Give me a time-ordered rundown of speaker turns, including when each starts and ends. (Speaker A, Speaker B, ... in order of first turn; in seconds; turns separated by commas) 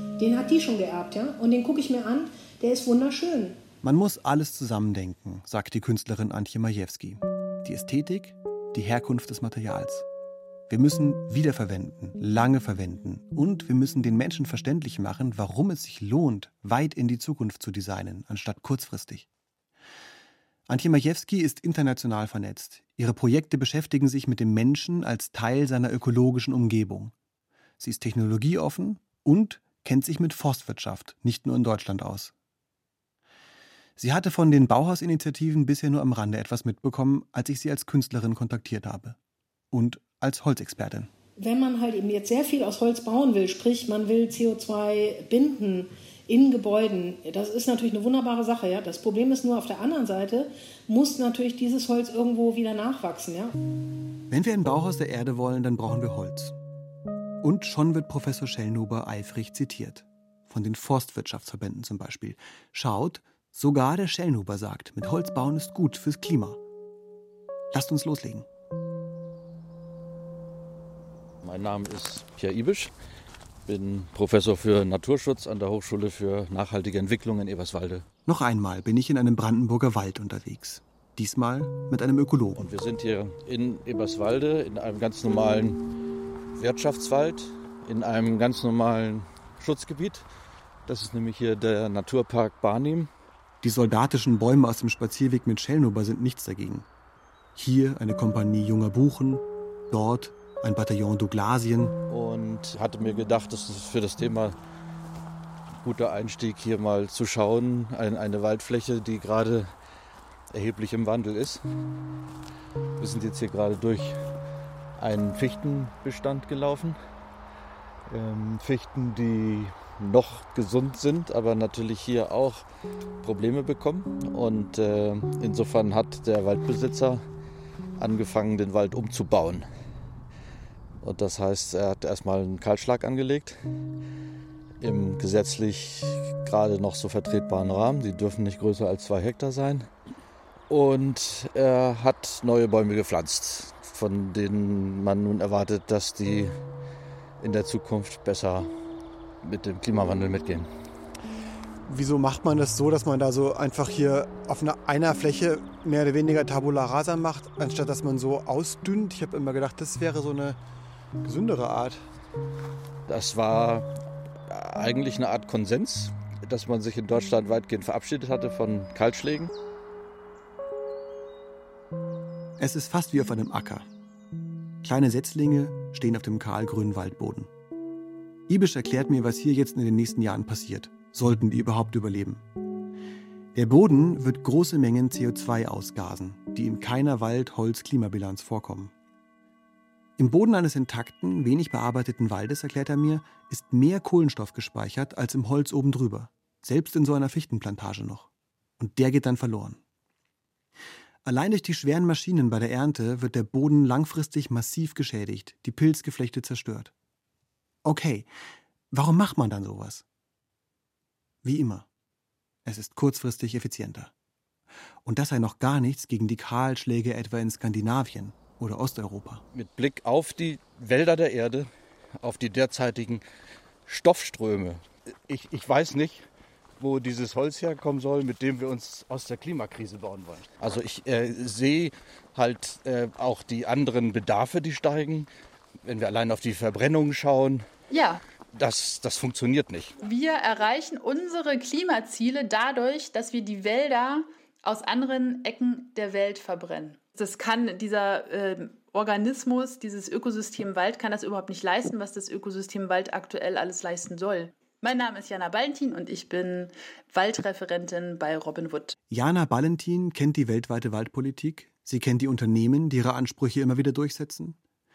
Speaker A: 0.2-3.6, Speaker B: 3.8-10.1, Speaker B: 10.7-19.3, Speaker B: 20.7-27.1, Speaker B: 27.8-32.3, Speaker B: 34.0-39.2, Speaker B: 39.7-41.1, Speaker A: 41.4-53.5, Speaker B: 54.3-56.6, Speaker B: 57.4-66.6, Speaker B: 67.7-68.5, Speaker C: 71.4-72.9, Speaker C: 73.7-78.0, Speaker B: 78.3-82.7, Speaker C: 82.6-85.8, Speaker C: 86.6-90.3, Speaker C: 90.9-93.1, Speaker B: 93.6-96.9, Speaker B: 97.6-102.0, Speaker C: 102.1-104.6, Speaker C: 105.8-109.7, Speaker C: 110.5-111.6, Speaker C: 113.0-114.2, Speaker C: 115.0-117.0, Speaker C: 118.1-122.7, Speaker C: 123.2-127.2, Speaker C: 128.0-129.7, Speaker C: 131.0-133.6, Speaker C: 134.8-139.9, Speaker C: 140.7-146.5, Speaker C: 147.4-148.7, Speaker C: 149.4-150.7, Speaker D: 151.9-160.6, Speaker D: 161.2-162.1, Speaker C: 163.1-163.9, Speaker C: 164.5-169.5, Speaker B: 172.6-173.9, Speaker B: 174.8-177.5, Speaker B: 178.5-182.4, Speaker B: 183.5-188.9, Speaker B: 190.2-199.8, Speaker B: 201.2-206.9, Speaker B: 207.8-208.3, Speaker B: 208.9-210.1, Speaker B: 211.4-211.9, Speaker B: 212.7-214.1, Speaker B: 215.1-219.4, Speaker C: 219.5-221.7, Speaker C: 222.2-223.2, Speaker C: 223.9-226.3, Speaker C: 226.8-235.3, Speaker C: 235.8-237.7, Speaker E: 237.9-238.2, Speaker C: 238.6-240.0, Speaker E: 240.0-259.0, Speaker B: 259.1-264.6